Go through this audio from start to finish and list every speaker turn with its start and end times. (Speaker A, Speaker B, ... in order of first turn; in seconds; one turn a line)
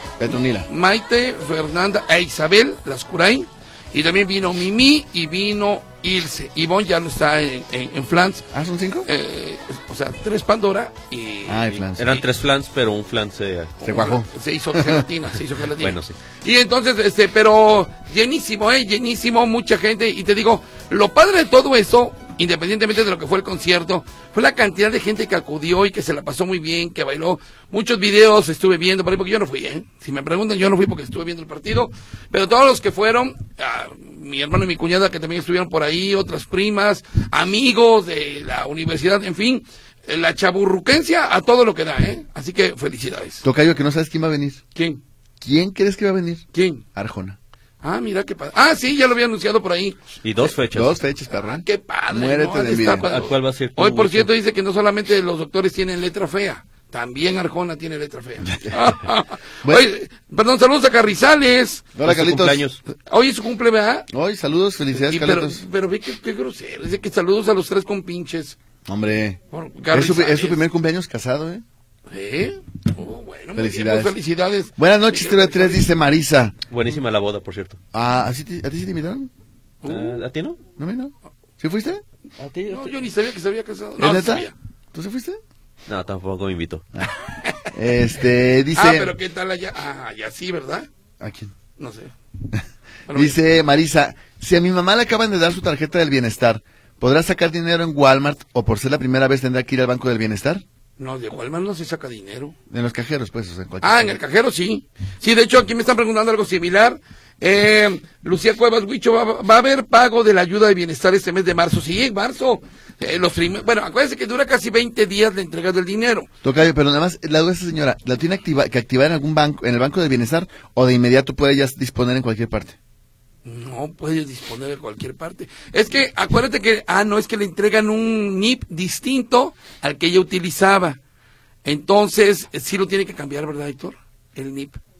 Speaker A: 0.2-0.7
Speaker B: 0.7-8.5
Speaker A: 8.5-9.1
Speaker B: 9.1-11.7
Speaker A: 11.4-12.2
Speaker C: 11.8-13.8
Speaker B: 13.8-43.4
Speaker A: 13.8-15.0
Speaker C: 15.8-16.1
Speaker A: 43.4-44.6
Speaker B: 44.7-45.0
Speaker A: 45.4-47.4
Speaker B: 46.5-46.8
Speaker B: 47.8-50.1
Speaker C: 50.2-51.0
Speaker A: 50.7-53.1
Speaker B: 51.3-61.9
Speaker C: 53.0-54.3
Speaker A: 61.9-62.6
Speaker C: 62.0-62.8
Speaker B: 63.0-64.1
Speaker A: 64.1-65.6
Speaker B: 64.9-68.6
Speaker A: 68.8-69.4
Speaker B: 69.5-70.6
Speaker A: 69.9-71.6
Speaker B: 72.1-75.9
Speaker A: 73.5-74.1
Speaker A: 74.8-76.5
Speaker C: 76.7-77.8
Speaker A: 77.9-79.3
Speaker B: 79.8-80.2
Speaker C: 79.8-80.6
Speaker A: 80.8-82.0
Speaker C: 82.4-83.0
Speaker B: 82.7-84.5
Speaker A: 84.0-85.4
Speaker C: 85.9-86.8
Speaker B: 87.3-87.7
Speaker A: 87.7-89.1
Speaker B: 88.7-90.9
Speaker A: 91.2-91.5
Speaker B: 91.8-92.1
Speaker A: 92.5-100.6
Speaker B: 93.1-93.4
Speaker B: 101.0-102.5
Speaker A: 102.7-104.2
Speaker B: 103.8-116.3
Speaker A: 116.4-122.8
Speaker B: 123.4-131.0
Speaker B: 131.6-134.8